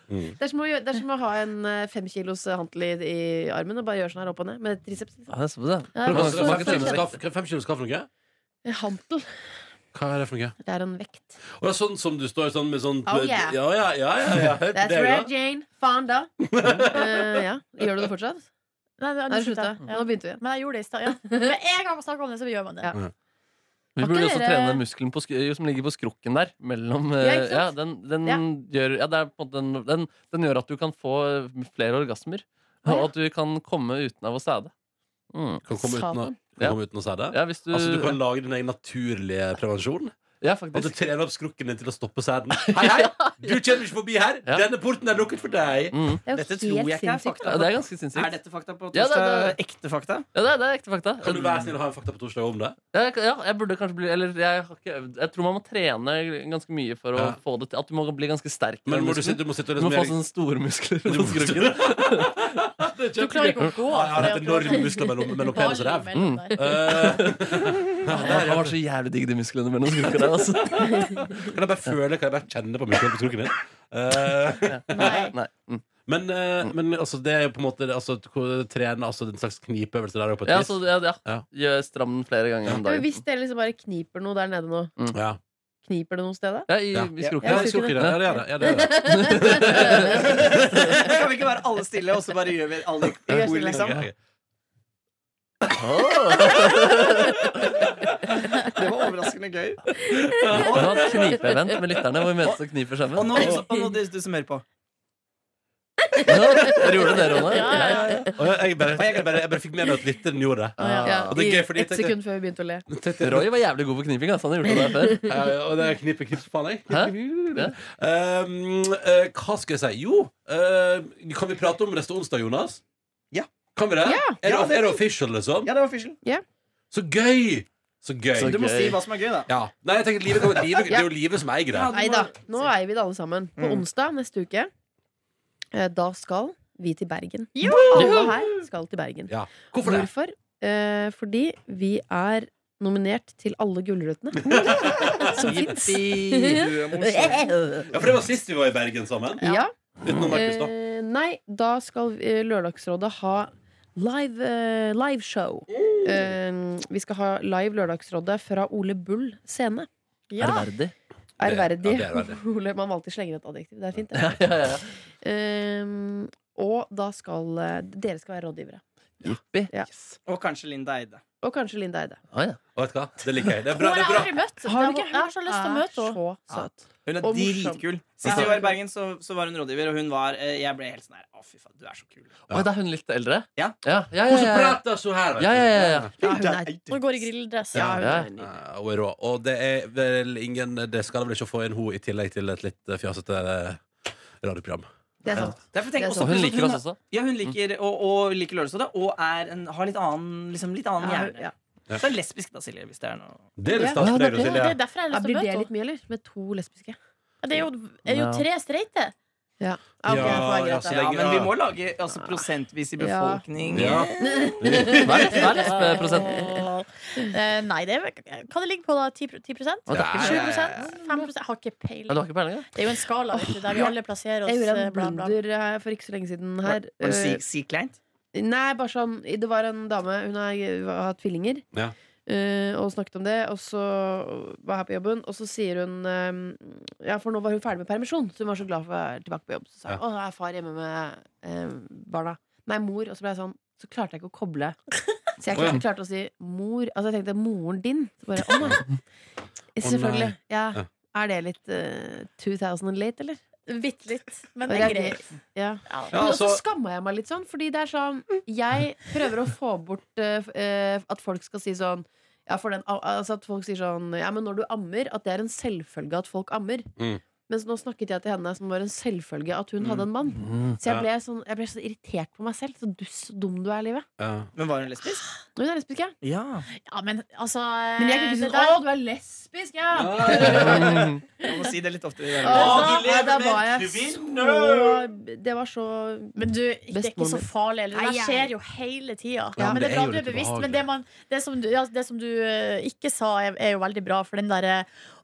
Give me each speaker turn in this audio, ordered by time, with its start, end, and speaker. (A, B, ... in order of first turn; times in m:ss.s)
0:00.1-0:00.4 A
0:00.4-0:05.3 B
0:05.3-0:07.1 C
0:05.9-0:07.1 B
0:06.1-0:08.1 A
0:08.6-0:09.5 B
0:09.9-0:10.6 A
0:10.6-0:11.4 B
0:11.6-0:15.3 A
0:13.1-0:13.6 B
0:14.7-0:18.5 B
0:16.4-0:17.5 A
0:19.0-0:22.9 D
0:19.3-0:20.4 B
0:21.1-0:21.5 B
0:24.0-0:34.7 C
0:24.0-0:24.8 B
0:27.2-0:27.7 B
0:35.3-0:35.7 C
0:35.6-0:40.1 A
0:35.8-0:36.3 B
0:36.6-0:38.2 C
0:40.4-0:41.0 C
0:40.7-0:46.0 A
0:42.6-0:43.6 C
0:45.9-0:46.2 C
0:46.3-0:47.7 B
0:46.3-0:50.3 E
0:47.4-0:48.4 C
0:48.9-0:49.6 C
0:50.3-0:51.7 C
0:51.2-0:52.8 A
0:52.9-1:02.6 C
0:58.9-1:00.2 A
1:01.1-1:08.8 A
1:03.2-1:07.1 D
1:06.1-1:11.5 C
1:10.2-1:15.3 A
1:14.7-1:15.8 C
1:14.9-1:15.4 D
1:16.1-1:21.4 A
1:20.5-1:23.2 C
1:22.8-1:24.9 B
1:25.1-1:25.4 A
1:25.8-1:26.7 B
1:26.7-1:30.2 C
1:26.9-1:31.1 A
1:27.4-1:31.0 B
1:30.2-1:34.0 E
1:33.3-1:33.9 D
1:33.3-1:34.0 C
1:33.7-1:34.1 A
1:35.7-1:37.7 C
1:38.6-1:39.9 E
1:40.1-1:41.1 A
1:40.2-1:40.8 B
1:40.5-1:41.5 E
1:40.6-1:43.5 C
1:43.1-1:44.6 E
1:43.4-1:43.6 A
1:43.6-1:43.9 B
1:46.0-1:48.4 B
1:46.2-1:48.3 C
1:47.3-1:48.3 D
1:48.4-1:52.2 A
1:49.0-1:49.4 E
1:50.8-1:51.3 C
1:50.8-1:51.3 D
1:51.0-1:52.9 B
1:52.9-1:53.5 A
1:53.2-1:55.2 C
1:54.8-1:55.3 B
1:55.2-2:02.8 A
1:56.9-1:57.8 C
2:03.8-2:05.7 A
2:04.0-2:04.4 B
2:04.4-2:05.0 E
2:05.6-2:06.2 E
2:06.9-2:08.6 A
2:08.4-2:09.0 C
2:08.4-2:09.5 E
2:09.5-2:12.0 A
2:11.7-2:12.7 E
2:11.9-2:14.7 B
2:13.6-2:13.8 E
2:15.7-2:19.3 B
2:17.6-2:18.3 D
2:17.7-2:18.3 A
2:19.3-2:20.1 A
2:19.8-2:27.9 B
2:24.4-2:25.4 A
2:25.2-2:27.5 E
2:27.9-2:29.5 A
2:29.4-2:39.9 B
2:30.0-2:30.7 A
2:40.3-2:40.7 D
2:40.4-2:40.9 C
2:41.4-2:44.6 B
2:41.4-2:42.4 A
2:44.1-2:45.0 C
2:45.2-2:48.8 B
2:49.2-2:49.7 C
2:50.2-2:51.2 E
2:51.4-2:52.2 B
2:52.3-2:52.6 C
2:52.8-2:54.4 A
2:53.7-2:56.2 D
2:54.6-2:58.8 B
2:57.0-3:02.4 E
2:58.2-2:58.5 A
3:02.5-3:04.8 C
3:04.3-3:06.1 A
3:05.4-3:06.1 C
3:05.8-3:07.0 E
3:06.2-3:06.8 B
3:06.9-3:07.9 D
3:07.7-3:08.5 B
3:07.7-3:14.9 A
3:08.0-3:08.3 C
3:15.2-3:16.5 B
3:15.3-3:15.6 C
3:15.7-3:23.6 E
3:16.1-3:17.5 C
3:21.0-3:21.5 B
3:23.6-3:24.8 A
3:23.7-3:27.0 B
3:24.3-3:25.7 D
3:27.4-3:29.1 D
3:28.1-3:28.4 C
3:29.6-3:31.0 B
3:30.1-3:31.5 A
3:30.1-3:30.4 D
3:30.2-3:35.0 E
3:33.0-3:36.6 B
3:33.7-3:34.1 A
3:34.6-3:35.4 A
3:35.0-3:36.5 C
3:35.6-3:45.4 D
3:39.9-3:40.2 C
3:39.9-3:40.9 A
3:41.0-3:41.3 B
3:42.1-3:42.7 C
3:43.3-3:44.0 B
3:44.5-3:47.4 B
3:46.7-3:48.0 E
3:48.3-3:51.7 B
3:52.3-4:04.8 B
4:05.4-4:09.0 B
4:05.5-4:05.8 A
4:09.8-4:13.4 B
4:09.8-4:10.8 A
4:13.7-4:15.2 D
4:14.7-4:26.9 B
4:15.9-4:16.2 D
4:16.1-4:16.6 A
4:27.5-4:34.1 B
4:29.8-4:30.1 E
4:30.4-4:30.8 C
4:34.2-4:34.5 A
4:34.6-4:35.2 E
4:35.6-4:36.2 B
4:36.2-4:36.7 E
4:36.8-4:38.8 D
4:38.0-4:41.1 B
4:39.9-4:41.0 A
4:40.4-4:43.3 E
4:40.4-4:41.2 C
4:42.4-4:48.5 B
4:42.5-4:45.0 A
4:42.5-4:43.0 D
4:46.4-4:54.9 D
4:49.6-4:50.9 A